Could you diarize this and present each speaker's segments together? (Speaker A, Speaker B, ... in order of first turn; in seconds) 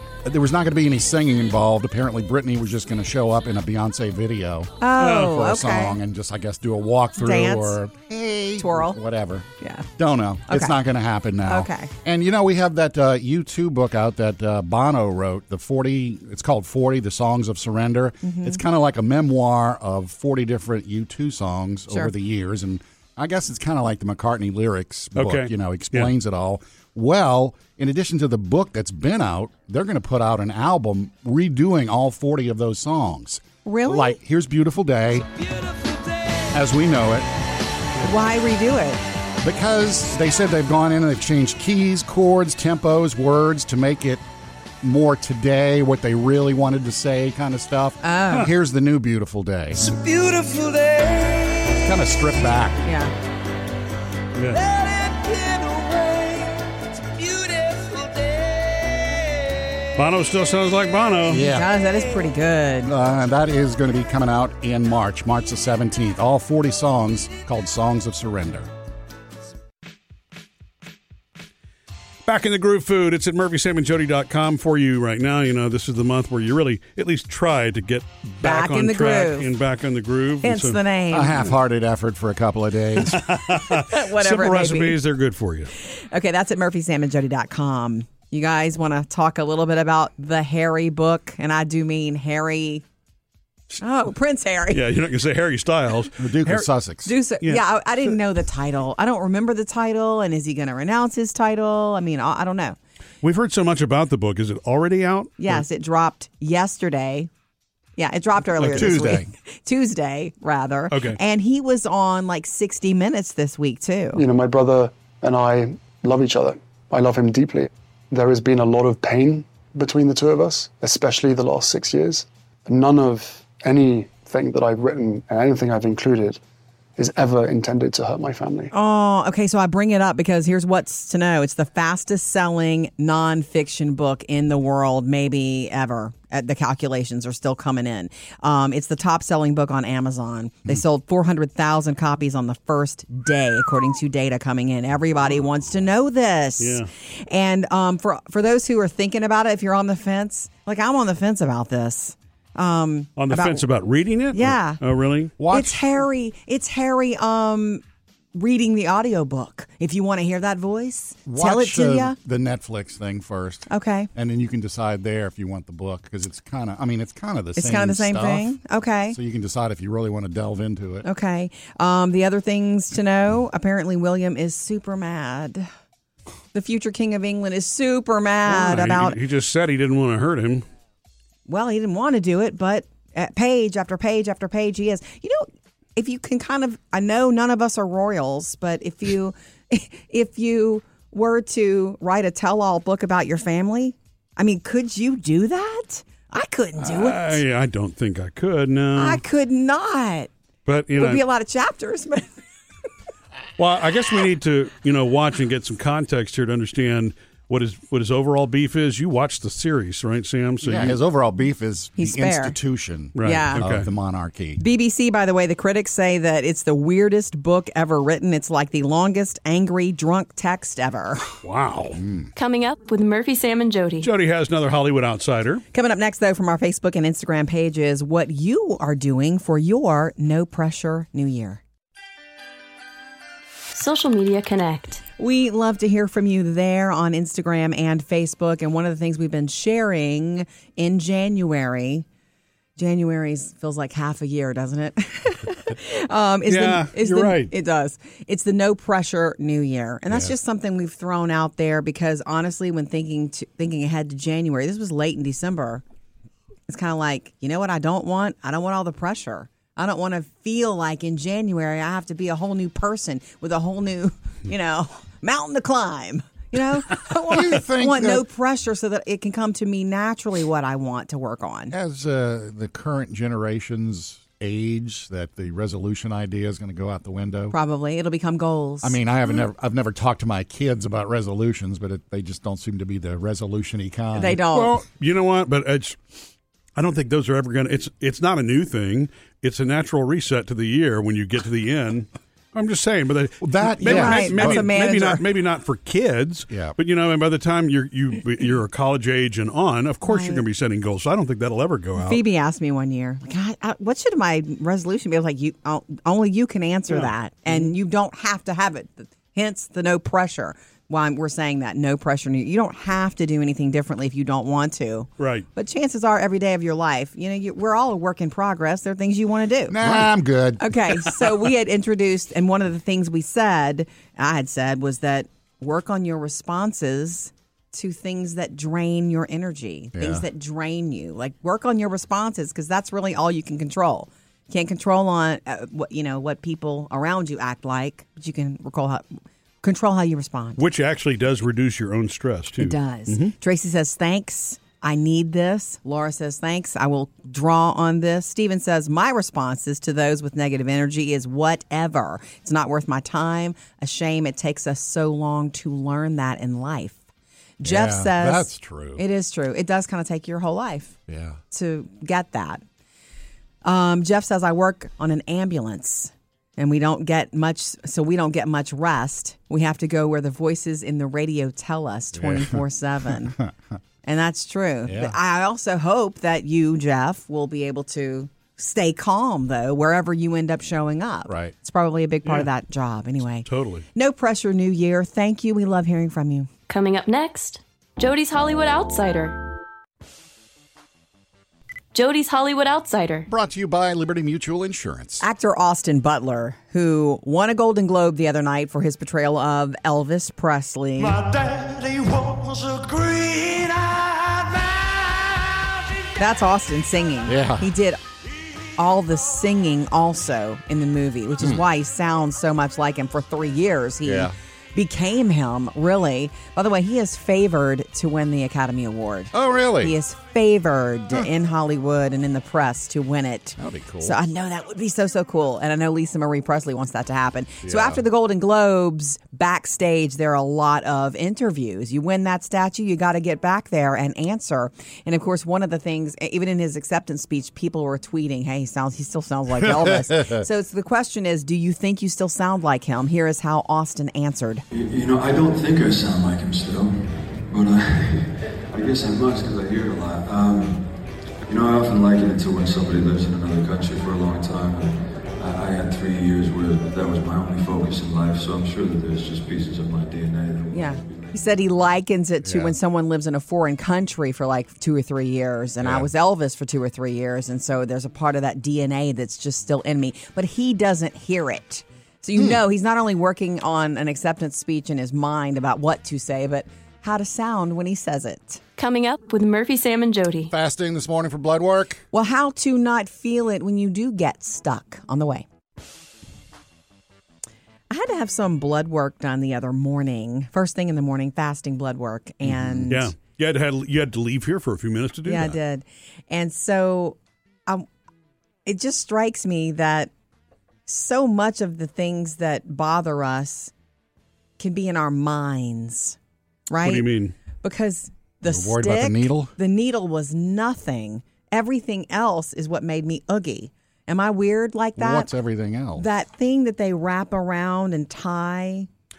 Speaker A: 0.2-35.3, 36.5-37.3, 39.4-44.2, 44.8-49.9, 51.7-52.9, 61.3-61.8, 62.8-68.7, 81.1-83.4, 96.2-97.1, 108.7-109.3, 155.4-155.8, 161.3-168.6, 169.1-171.1, 210.6-214.6, 221.9-222.3, 267.2-268.3, 271.7-277.6, 278.8-284.4, 293.4-294.7, 296.5-296.8, 319.7-321.1, 329.9-330.2, 357.6-359.0, 361.1-361.4, 372.1-372.6, 373.2-373.5, 374.9-375.1, 381.3-381.5, 393.3-395.2, 407.3-407.6, 414.0-414.3, 419.3-419.9, 423.6-424.2, 427.6-428.0, 440.1-440.4, 462.4-462.8, 465.8-466.1, 480.5-482.0, 492.4-493.0, 508.4-509.5, 515.0-516.1
Speaker B: 4.8-6.0, 7.2-7.8, 8.6-9.0, 9.6-9.9, 10.5-10.8, 11.4-11.9, 18.2-18.6, 33.6-34.2, 38.0-39.0, 48.0-48.5, 52.8-53.1, 61.4-62.9, 78.4-79.5, 80.4-81.5, 83.7-85.0, 85.8-92.8, 93.8-94.8, 97.0-102.8, 105.4-107.3, 108.0-114.2, 128.7-153.6, 154.3-154.8, 155.5-157.8, 158.3-162.2, 163.7-164.1, 167.6-169.2, 171.0-175.7, 176.5-179.2, 181.5-197.4, 199.0-200.3, 201.0-202.3, 212.0-212.6, 213.2-213.6, 214.6-221.2, 225.7-231.6, 235.2-242.1, 242.8-255.8, 256.7-271.7, 277.5-279.0, 284.1-284.7, 293.8-295.2, 300.0-300.4, 302.0-320.1, 320.6-339.1, 339.6-340.6, 342.6-357.0, 357.6-361.0, 361.5-362.6, 363.6-373.4, 374.0-386.5, 395.2-401.2, 406.1-408.0, 408.8-444.6, 460.7-478.6, 482.1-485.4, 487.9-493.1, 495.2-497.9, 498.7-500.1, 500.9-503.7, 504.6-506.2, 506.7-507.1, 507.6-515.3, 516.0-518.9
Speaker C: 5.0-5.3, 25.2-26.1, 54.4-54.6, 60.0-61.5, 72.3-80.8, 83.0-85.7, 94.7-96.7, 103.2-105.6, 108.6-109.0, 110.9-111.2, 146.6-146.9, 153.2-155.3, 178.5-180.7, 196.8-199.2, 200.7-201.2, 203.6-211.0, 213.2-213.9, 221.4-222.0, 224.0-225.6, 246.5-247.5, 284.5-286.0, 286.8-302.2, 306.9-307.7, 315.2-315.5, 340.6-343.3, 383.4-383.9, 492.9-495.6, 506.8-507.3
Speaker D: 114.2-126.4, 127.0-128.7
Speaker E: 222.4-224.1, 233.7-235.0, 386.7-389.4, 391.9-393.3, 478.8-480.5
Speaker F: 444.7-450.9, 451.5-461.7